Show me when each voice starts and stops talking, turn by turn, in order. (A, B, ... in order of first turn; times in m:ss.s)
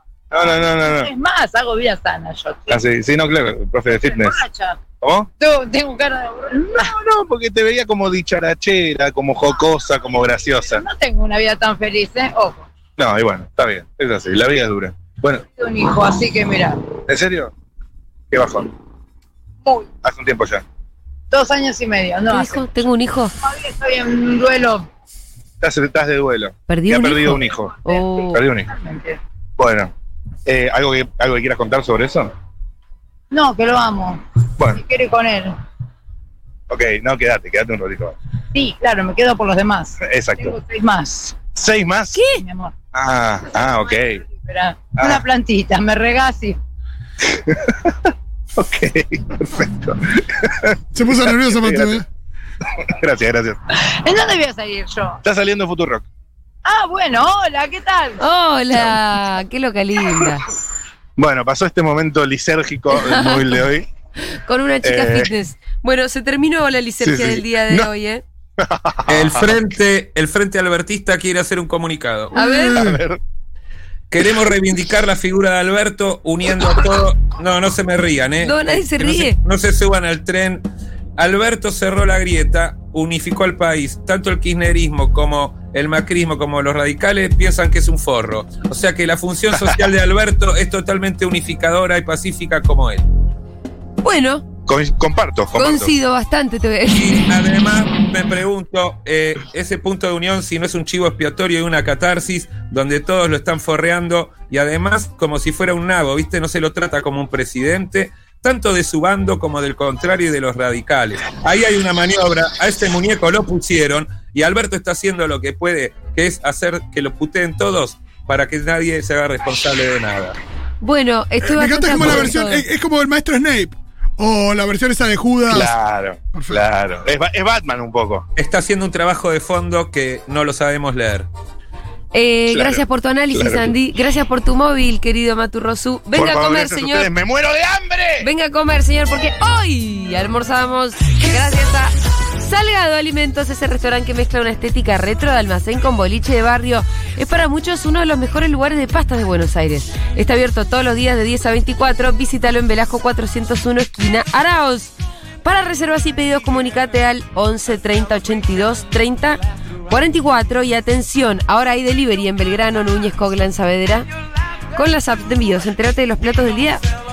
0:00.3-0:01.1 A
0:00.3-0:02.8 B
0:02.7-0:04.4 A
0:03.9-0:04.8 B
0:05.0-0:05.3 A
0:05.4-0:06.9 B
0:06.7-0:10.8 A
0:10.0-0:12.7 B
0:13.0-0:15.4 A
0:15.6-0:16.8 B
0:17.1-0:17.5 A
0:18.3-0:18.7 A
0:20.0-0:20.6 A
0:21.3-0:22.8 B
0:22.3-0:23.3 C
0:23.4-0:24.9 B
0:25.6-0:28.7 A
0:26.7-0:28.4 C
0:27.9-0:29.2 B
0:29.6-0:29.9 A
0:30.4-0:32.3 A
0:33.3-0:35.6 B
0:36.7-0:38.2 A
0:38.5-0:41.4 B
0:40.0-0:40.6 A
0:41.5-0:42.2 A
0:42.1-0:42.4 C
0:42.3-0:42.7 B
0:42.9-0:44.2 A
0:44.2-0:46.6 B
0:45.0-0:45.2 A
0:47.2-0:52.0 A
0:50.9-0:52.1 D
0:52.7-0:53.6 A
0:53.8-0:55.2 B
0:55.2-0:56.0 A
0:56.6-0:58.2 B
0:58.2-1:00.4 C
1:01.2-1:03.9 A
1:02.9-1:03.6 C
1:04.3-1:08.2 C
1:04.8-1:05.3 A
1:07.0-1:07.9 A
1:08.6-1:09.6 A
1:09.1-1:12.3 E
1:12.4-1:12.8 C
1:12.6-1:13.0 D
1:12.6-1:13.2 A
1:14.1-1:20.6 E
1:18.4-1:19.4 C
1:21.2-1:33.0 E
1:34.0-1:34.4 C
1:34.7-1:35.9 A
1:35.6-1:37.3 C
1:36.9-2:00.4 E
2:00.8-2:02.7 C
2:01.5-2:05.7 D
2:05.5-2:08.3 A
2:06.3-2:06.6 D
2:08.4-2:11.3 E
2:12.1-2:17.1 C
2:12.5-2:13.7 A
2:16.1-2:18.3 A
2:18.2-2:44.1 C
2:44.7-2:46.8 C